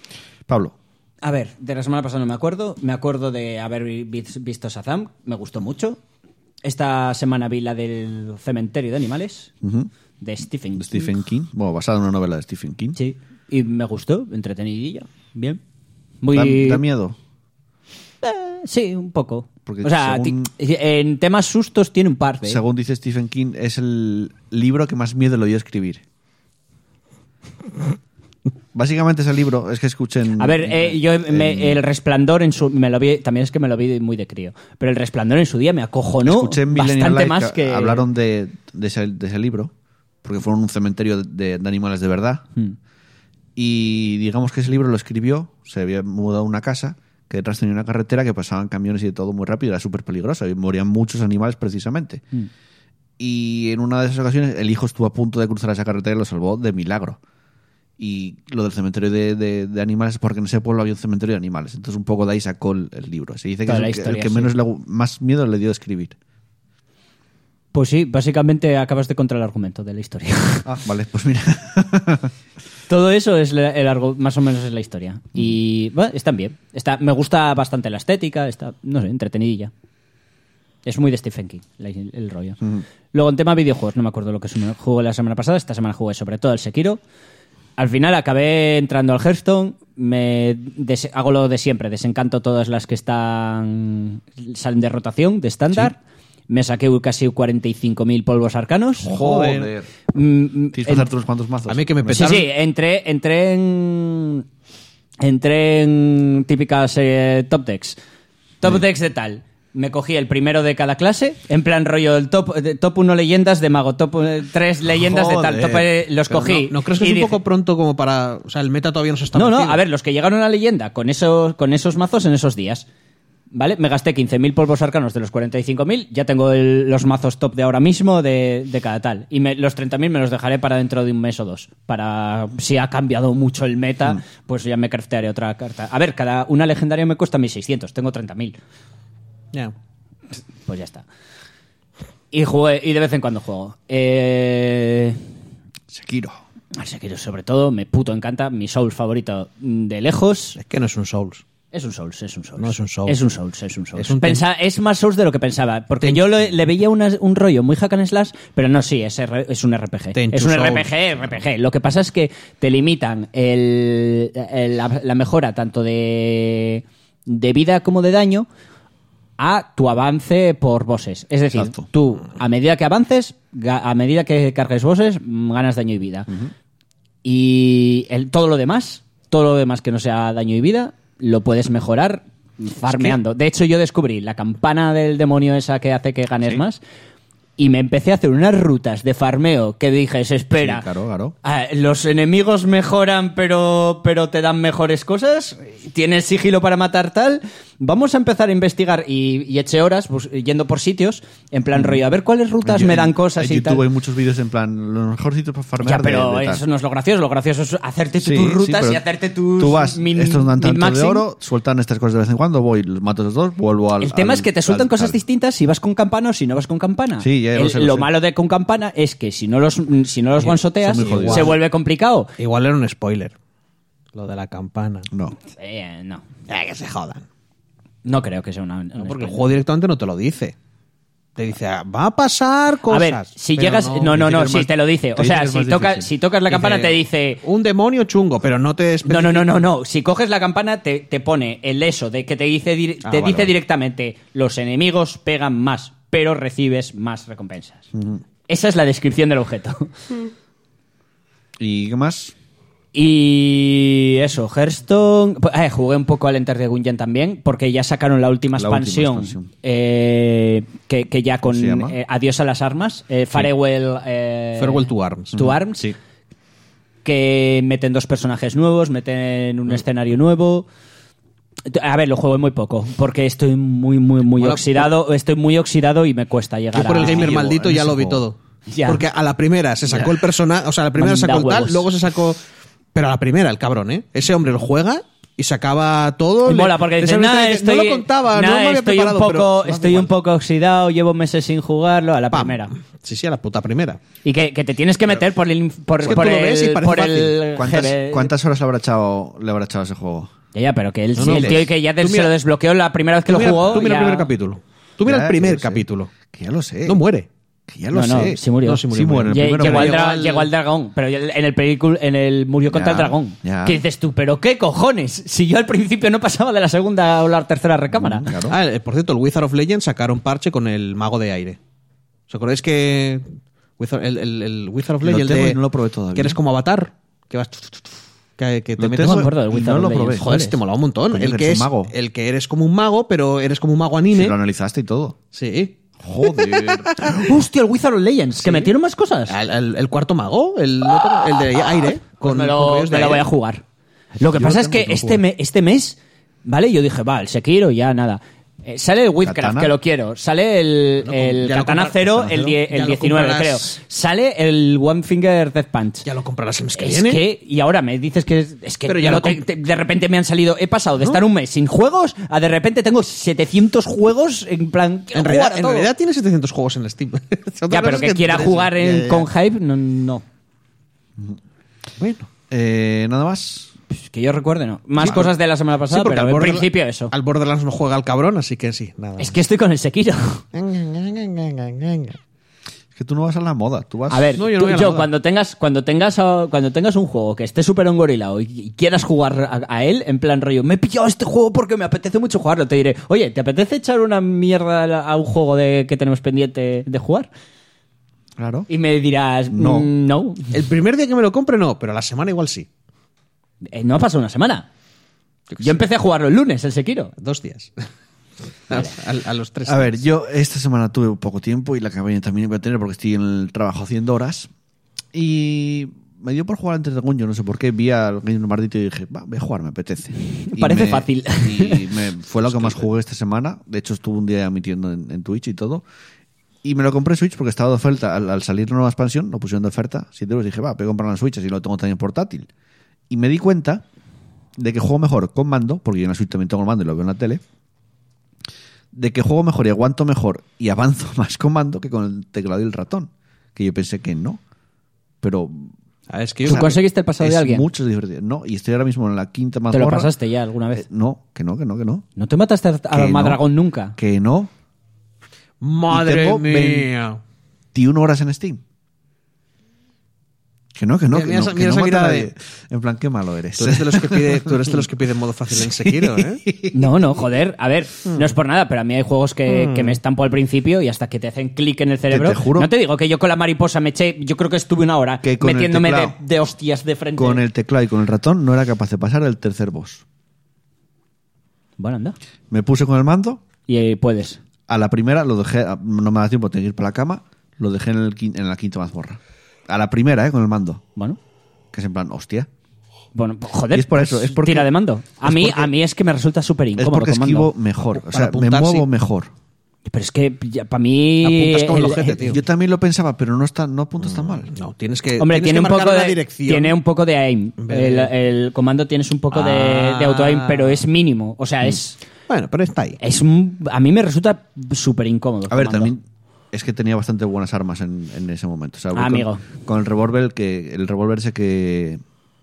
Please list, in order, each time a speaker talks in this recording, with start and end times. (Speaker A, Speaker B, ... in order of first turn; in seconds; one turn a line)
Speaker A: 0.5-0.8
Speaker B: 1.2-6.0
Speaker B: 6.6-9.5
Speaker A: 9.6-9.9
Speaker B: 10.2-11.2
Speaker A: 10.8-13.0
Speaker B: 13.0-15.6
Speaker B: 16.2-16.8
Speaker A: 16.3-17.2
Speaker B: 18.2-22.6
Speaker A: 19.7-20.5
Speaker A: 22.4-26.0
Speaker A: 28.7-31.8
Speaker B: 30.4-38.1
Speaker A: 36.2-39.7
Speaker A: 40.2-42.5
Speaker A: 43.6-52.2
Speaker A: 53.2-57.2
Speaker A: 58.0-66.2
Speaker B: 63.6-64.5
Speaker B: 67.7-70.7
Speaker A: 70.6-72.3
Speaker B: 72.9-79.7
Speaker B: 80.8-87.0
Speaker B: 87.8-96.0
Speaker B: 96.5-99.1
Speaker A: 99.0-99.9
Speaker C: 99.1-99.7
Speaker B: 100.1-101.1
Speaker A: 100.7-102.4
Speaker C: 101.7-102.5
Speaker B: 102.1-104.5
Speaker B: 105.2-108.0
Speaker B: 108.6-117.4
Speaker A: 115.0-115.8
Speaker C: 116.3-119.8
Speaker B: 119.3-122.8
Speaker B: 123.5-138.6
Speaker B: 140.7-141.1
Speaker B: 142.3-145.2
Speaker A: 145.9-146.4
Speaker B: 146.8-150.6
Speaker C: 150.6-151.4
Speaker B: 151.7-168.5
Speaker C: 152.6-153.2
Speaker C: 154.0-154.4
Speaker C: 160.1-160.9
Speaker B: 169.4-176.3
Speaker A: 171.5-171.9
Speaker B: 177.2-186.8
Speaker A: 182.9-183.2
Speaker B: 187.6-190.9
Speaker A: 190.6-191.3
Speaker B: 191.4-203.8
Speaker A: 201.8-202.0
Speaker A: 202.6-206.6
Speaker B: 205.8-211.2
Speaker A: 208.2-209.0
Speaker A: 209.6-215.2
Speaker B: 214.0-222.3
Speaker A: 217.2-218.1
Speaker C: 220.4-221.6
Speaker A: 220.8-221.6
Speaker C: 222.4-223.3
Speaker C: 224.1-225.1
Speaker A: 225.1-225.4
Speaker B: 225.5-226.2
Speaker C: 226.5-227.2
Speaker B: 228.1-229.4
Speaker C: 229.0-230.6
Speaker C: 231.4-234.5
Speaker B: 232.9-237.4
Speaker A: 234.3-236.1
Speaker C: 236.5-239.5
Speaker B: 239.1-247.9
Speaker C: 243.1-243.5
Speaker A: 247.9-248.2
Speaker B: 248.5-249.9
Speaker A: 251.6-252.3
Speaker B: 252.9-265.9
Speaker A: 258.5-259.5
Speaker A: 261.4-262.0
Speaker C: 264.6-265.4
Speaker A: 265.4-266.0
Speaker B: 267.0-270.7
Speaker B: 271.7-277.4
Speaker C: 274.4-274.9
Speaker C: 276.7-282.4
Speaker A: 277.0-278.3
Speaker B: 278.7-279.0
Speaker B: 281.0-281.9
Speaker C: 282.9-290.1
Speaker B: 286.5-292.7
Speaker C: 292.3-294.0
Speaker B: 294.2-298.3
Speaker C: 296.0-297.5
Speaker A: 297.6-300.3
Speaker B: 300.5-304.3
Speaker C: 301.2-302.3
Speaker A: 301.2-301.6
Speaker C: 303.3-306.1
Speaker A: 305.0-307.0
Speaker C: 306.9-307.3
Speaker A: 307.7-308.4
Speaker B: 307.9-318.3
Speaker C: 307.9-310.5
Speaker A: 308.9-310.0
Speaker A: 312.7-313.8
Speaker A: 317.9-318.6
Speaker C: 318.5-321.6
Speaker C: 322.3-323.3
Speaker C: 323.8-325.6
Speaker A: 325.0-326.4
Speaker C: 326.1-329.3
Speaker A: 328.8-330.3
Speaker B: 329.0-330.6
Speaker C: 330.2-334.4
Speaker A: 331.1-331.9
Speaker A: 334.1-335.2
Speaker C: 335.3-337.3
Speaker A: 336.0-337.0
Speaker B: 337.1-339.4
Speaker C: 338.4-338.7
Speaker C: 339.3-343.3
Speaker B: 342.2-343.6
Speaker B: 344.2-356.1
Speaker A: 344.3-345.2
Speaker A: 349.2-349.7
Speaker C: 351.0-353.8
Speaker A: 352.2-352.5
Speaker C: 356.1-357.2
Speaker B: 356.8-365.9
Speaker C: 358.9-359.4
Speaker C: 365.1-369.3
Speaker B: 367.7-370.2
Speaker C: 372.0-372.3
Speaker A: 372.5-373.7
Speaker B: 373.9-377.1
Speaker A: 375.0-375.3
Speaker C: 375.0-375.3
Speaker C: 375.9-379.4
Speaker B: 379.2-380.4
Speaker C: 380.5-382.2
Speaker A: 382.9-384.4
Speaker B: 384.1-397.3
Speaker C: 384.4-385.1
Speaker A: 398.4-398.7
Speaker B: 398.7-400.5
Speaker A: 399.5-399.9
Speaker C: 400.5-402.7
Speaker B: 403.6-404.7
Speaker C: 405.5-405.8
Speaker B: 405.6-407.1
Speaker C: 407.2-407.8
Speaker C: 408.7-410.0
Speaker A: 409.7-414.5
Speaker A: 415.1-425.8
Speaker B: 420.4-422.0
Speaker C: 422.4-422.8
Speaker A: 426.6-432.5
Speaker A: 433.1-433.8
Speaker A: 434.6-437.4
Speaker A: 438.9-444.4
Speaker A: 445.2-445.7
Speaker C: 446.1-446.8
Speaker B: 446.5-447.7
Speaker A: 446.5-450.1
Speaker B: 449.7-450.9
Speaker A: 450.7-452.1
Speaker B: 452.2-454.0
Speaker A: 452.9-453.4
Speaker A: 454.0-454.5
Speaker C: 455.6-457.2
Speaker A: 455.9-456.9
Speaker A: 457.7-458.6
Speaker A: 460.8-464.8
Speaker C: 461.1-462.3
Speaker C: 463.6-466.5
Speaker A: 465.6-466.8
Speaker B: 466.7-477.4
Speaker C: 469.5-470.0
Speaker A: 472.1-472.7
Speaker A: 475.2-476.2
Speaker A: 477.2-480.0
Speaker B: 481.8-482.2
Speaker A: 482.5-483.4
Speaker B: 483.7-484.4
Speaker A: 484.7-490.8
Speaker A: 491.7-492.5
Speaker B: 493.1-497.5
Speaker A: 493.7-494.7
Speaker A: 495.2-495.7
Speaker A: 496.8-499.3
Speaker C: 498.1-498.9
Speaker B: 499.9-502.2
Speaker C: 501.2-502.4
Speaker A: 502.2-504.5
Speaker C: 504.1-506.8
Speaker B: 505.2-512.0
Speaker C: 507.6-508.1
Speaker C: 509.3-510.9
Speaker C: 512.3-513.0
Speaker B: 513.0-515.9
Speaker A: 515.5-522.0
Speaker B: 519.0-519.4